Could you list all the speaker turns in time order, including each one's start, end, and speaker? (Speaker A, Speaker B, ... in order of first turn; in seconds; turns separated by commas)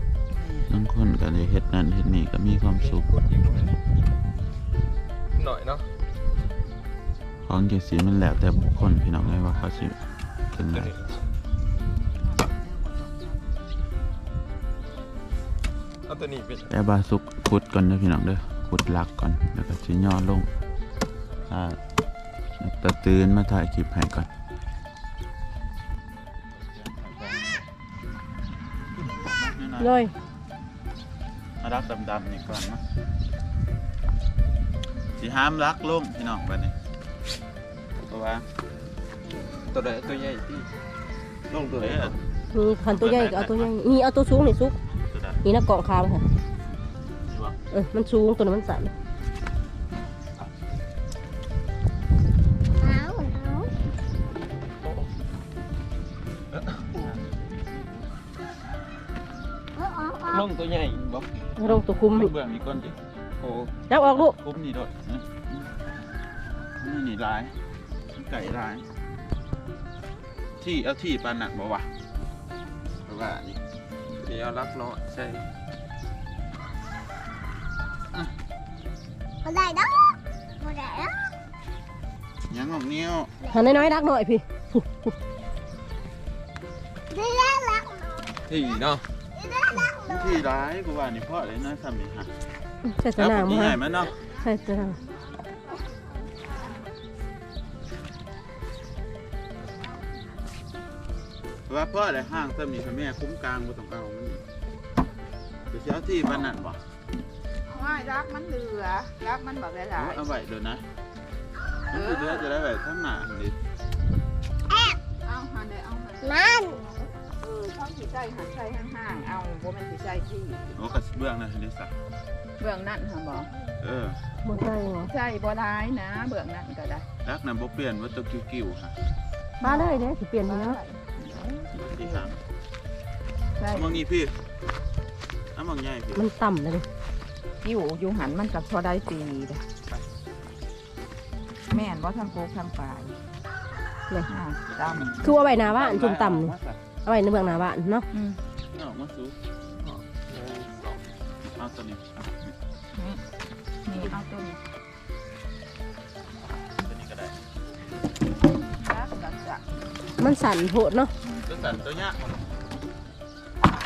Speaker A: 0.3-0.7, Speaker B: 0.7-3.1, Speaker C: 2.9-3.8, Speaker C: 5.4-5.9, Speaker B: 7.5-10.0, Speaker B: 10.5-10.9, Speaker C: 10.7-11.0, Speaker A: 12.1-13.7, Speaker C: 16.1-16.7, Speaker B: 16.7-20.5, Speaker B: 21.5-21.8, Speaker B: 22.6-24.3, Speaker B: 26.6-27.6, Speaker B: 29.0-29.9, Speaker D: 29.8-30.1, Speaker B: 31.6-32.8, Speaker B: 35.2-36.7, Speaker B: 38.0-38.5, Speaker C: 39.7-40.7, Speaker B: 41.5-42.1, Speaker C: 41.5-42.1, Speaker D: 42.5-44.7, Speaker B: 42.8-43.8, Speaker B: 45.0-45.4, Speaker D: 45.4-46.3, Speaker B: 47.3-47.6, Speaker D: 47.7-48.9, Speaker E: 52.8-53.7, Speaker E: 59.8-60.4, Speaker C: 60.3-61.3, Speaker D: 61.6-62.3, Speaker B: 62.1-63.0, Speaker C: 63.4-63.8, Speaker D: 63.9-64.3, Speaker B: 64.0-65.6, Speaker B: 66.8-67.5, Speaker B: 68.2-68.9, Speaker B: 70.6-71.9, Speaker B: 73.1-73.6, Speaker C: 74.2-75.5, Speaker E: 79.4-80.0, Speaker E: 80.6-81.1, Speaker B: 82.5-83.3, Speaker D: 83.5-85.1, Speaker E: 87.1-88.2, Speaker C: 88.5-89.0, Speaker E: 89.4-90.0, Speaker B: 90.0-92.3, Speaker D: 92.9-95.0, Speaker B: 93.2-94.2, Speaker B: 101.7-104.4, Speaker B: 105.7-106.8, Speaker A: 107.7-110.2, Speaker B: 110.0-110.8, Speaker B: 111.9-113.6, Speaker A: 111.9-112.4, Speaker E: 114.7-115.0, Speaker A: 115.2-120.8, Speaker E: 116.2-116.7, Speaker B: 120.8-122.0, Speaker A: 122.6-123.5, Speaker B: 123.8-124.2, Speaker D: 124.4-125.1, Speaker A: 125.0-127.1, Speaker B: 127.2-128.9, Speaker A: 129.6-132.3, Speaker D: 129.6-130.8, Speaker B: 131.8-132.4, Speaker A: 133.6-134.0, Speaker B: 133.7-134.4, Speaker B: 135.6-136.3, Speaker D: 136.2-136.9, Speaker A: 137.6-139.7, Speaker A: 141.7-143.2, Speaker A: 144.3-145.3, Speaker D: 145.2-148.1, Speaker B: 145.3-146.8, Speaker A: 148.1-148.4, Speaker B: 148.7-149.4, Speaker C: 149.9-151.0, Speaker B: 151.6-152.5, Speaker A: 152.9-153.2, Speaker A: 153.8-154.6, Speaker B: 156.8-157.4, Speaker A: 158.5-159.7, Speaker D: 160.2-161.1, Speaker B: 161.5-162.3